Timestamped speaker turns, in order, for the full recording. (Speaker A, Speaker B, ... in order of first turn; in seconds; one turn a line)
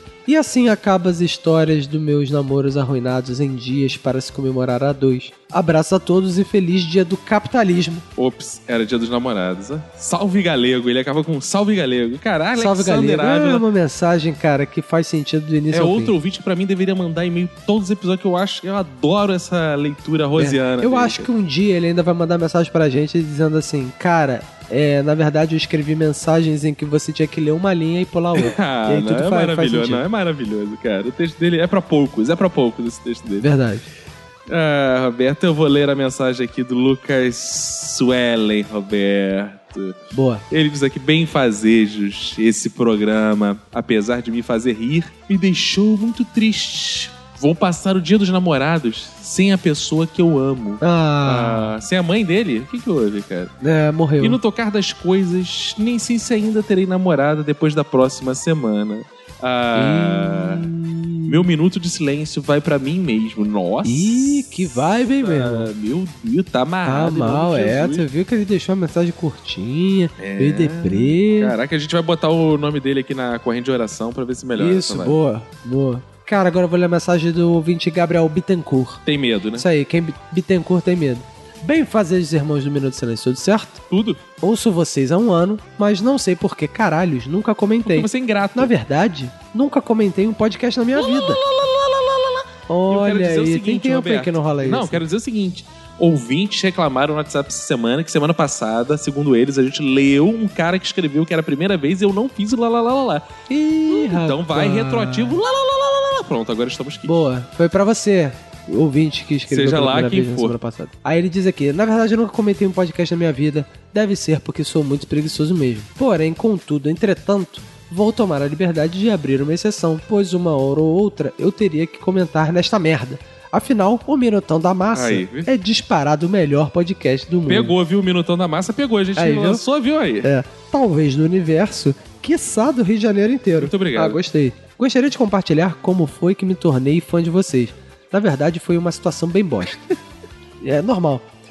Speaker A: 0.2-8.0
Speaker B: 8.2-13.6
Speaker A: 12.6-16.1
Speaker B: 15.7-21.3
Speaker A: 20.4-30.0
Speaker B: 28.4-33.5
Speaker A: 33.4-33.8
Speaker B: 34.5-40.0
Speaker A: 40.1-40.4
Speaker B: 40.5-53.5
Speaker A: 50.8-51.7
Speaker A: 53.6-54.4
Speaker B: 54.2-60.7
Speaker A: 59.7-61.5
Speaker B: 61.3-68.1
Speaker A: 63.8-65.7
Speaker A: 66.8-71.5
Speaker B: 70.2-75.2
Speaker A: 74.5-79.0
Speaker B: 79.0-79.7
Speaker A: 79.6-83.8
Speaker B: 83.9-84.2
Speaker A: 84.4-91.4
Speaker B: 87.8-88.7
Speaker B: 90.9-103.2
Speaker A: 92.7-95.0
Speaker A: 103.5-105.4
Speaker B: 103.9-107.1
Speaker A: 107.0-127.7
Speaker B: 109.5-110.6
Speaker B: 124.9-125.5
Speaker B: 127.5-130.3
Speaker A: 129.2-129.6
Speaker A: 130.2-139.8
Speaker B: 133.6-134.2
Speaker A: 140.6-141.2